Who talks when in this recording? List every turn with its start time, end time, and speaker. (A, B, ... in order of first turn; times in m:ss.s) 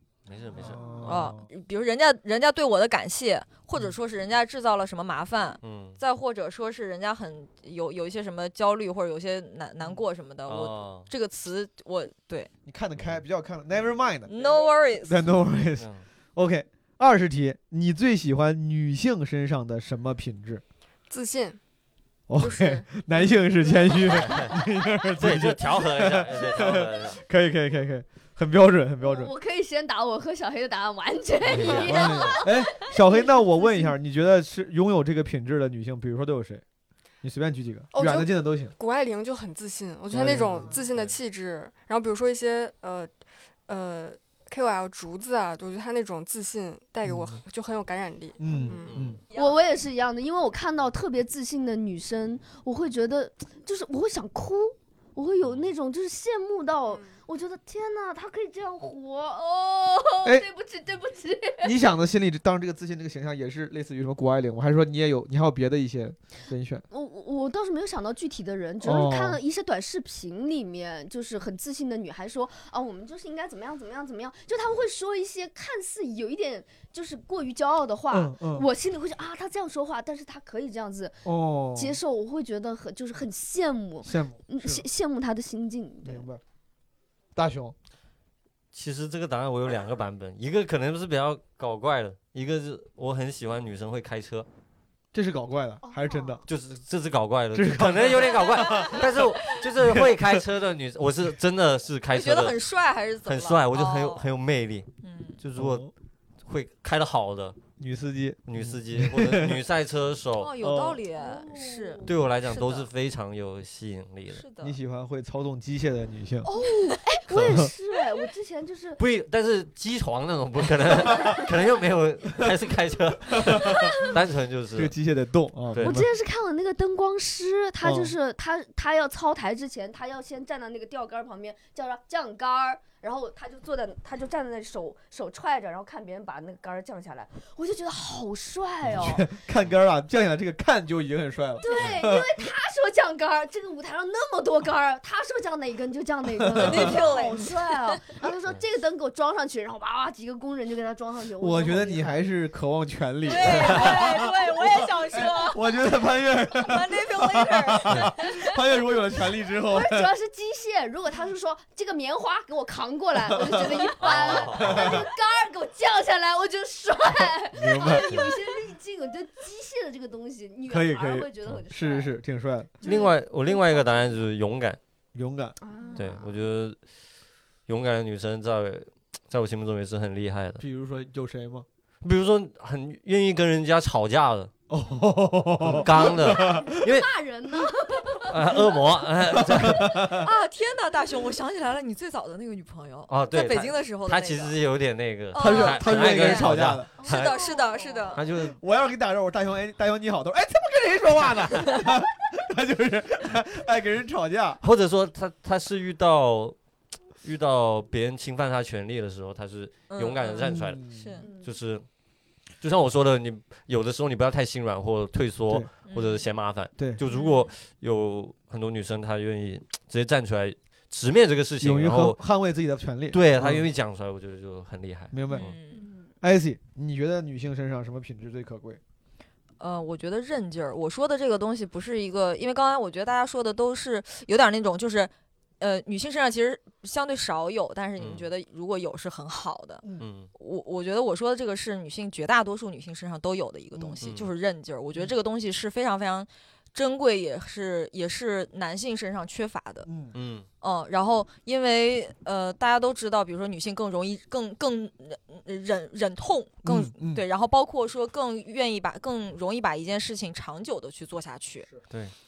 0:00.3-0:00.8 A
0:00.6-0:01.5 B
0:01.0-0:12.5 C
0:05.6-0:06.0 A
0:10.5-0:11.1 A
0:12.7-0:14.3 B
0:14.3-0:15.2 C
0:14.3-0:14.7 D
0:15.0-0:20.6 B
0:15.8-0:16.1 A
0:21.1-0:21.6 D
0:22.3-0:29.3 B
0:22.4-0:22.9 D
0:24.0-0:24.6 A
0:25.2-0:27.2 A
0:29.0-0:34.0 E
0:31.4-0:32.4 A
0:31.8-0:36.6 B
0:37.2-0:38.7 B
0:37.9-0:43.1 D
0:40.1-0:40.7 B
0:40.1-0:41.2 A
0:43.7-0:49.1 D
0:47.1-0:47.4 B
0:48.4-0:49.2 B
0:48.5-0:48.8 E
0:48.9-0:49.2 A
0:49.3-1:01.7 E
0:55.4-0:55.7 A
0:56.9-0:57.2 D
1:01.6-1:06.8 B
1:06.9-1:26.3 E
1:08.8-1:09.4 B
1:18.1-1:18.7 B
1:21.2-1:22.0 B
1:24.0-1:24.9 B
1:26.0-1:26.4 B
1:27.4-1:27.8 B
1:28.7-1:34.5 A
1:35.1-1:36.4 B
1:35.8-1:36.4 E
1:36.5-1:42.6 A
1:37.5-1:39.1 B
1:39.8-1:40.1 B
1:42.1-1:44.4 C
1:43.2-1:45.8 A
1:45.0-1:45.4 C
1:45.6-1:45.9 B
1:46.4-1:47.6 A
1:47.8-1:49.6 B
1:48.5-1:50.5 A
1:50.4-1:52.9 C
1:50.6-1:51.0 B
1:51.2-1:52.1 E
1:52.0-1:54.4 A
1:54.3-1:54.8 C
1:54.6-1:56.5 B
1:56.4-1:59.0 E
1:57.4-1:57.6 A
1:59.0-2:04.9 A
2:03.3-2:04.0 B
2:04.8-2:06.1 B
2:05.7-2:06.0 A
2:05.8-2:19.3 E
2:07.8-2:08.1 B
2:18.9-2:22.4 B
2:21.6-2:32.2 E
2:21.7-2:22.0 A
2:26.4-2:27.0 B
2:26.6-2:28.0 C
2:31.4-2:40.1 B
2:33.2-2:38.6 C
2:39.7-2:52.2 E
2:43.3-2:43.8 B
2:44.0-2:45.1 A
2:44.6-2:45.0 B
2:47.6-2:48.3 B
2:50.7-2:52.8 B
2:52.8-2:54.0 E
2:52.8-2:54.8 A
2:55.2-2:55.6 B
2:55.6-2:56.4 E
2:56.0-2:56.8 A
2:57.7-3:00.6 A
3:00.6-3:01.7 B
3:02.0-3:04.5 A
3:04.7-3:06.7 B
3:05.6-3:07.1 A
3:05.9-3:08.6 E
3:08.3-3:10.0 A
3:09.3-3:10.3 B
3:09.7-3:14.6 C
3:13.1-3:17.4 A
3:15.3-3:18.3 C
3:15.4-3:16.9 B
3:17.0-3:18.2 E
3:18.2-3:18.6 A
3:18.3-3:24.6 B
3:24.6-3:26.6 A
3:27.2-3:31.8 A
3:29.9-3:31.3 C
3:30.4-3:31.1 B
3:31.2-3:31.5 E
3:32.6-3:42.2 A
3:35.9-3:36.2 C
3:37.1-3:37.5 C
3:41.6-3:43.7 B
3:43.1-3:45.6 A
3:45.1-3:45.5 B
3:45.3-3:45.9 C
3:45.8-3:46.0 E
3:46.2-3:48.8 B
3:49.6-4:09.9 C
3:58.0-3:58.3 A
4:00.0-4:00.3 A
4:04.0-4:04.3 A
4:09.8-4:10.1 B
4:10.1-4:10.5 A
4:10.6-4:21.8 C
4:16.6-4:17.2 B
4:21.9-4:22.1 A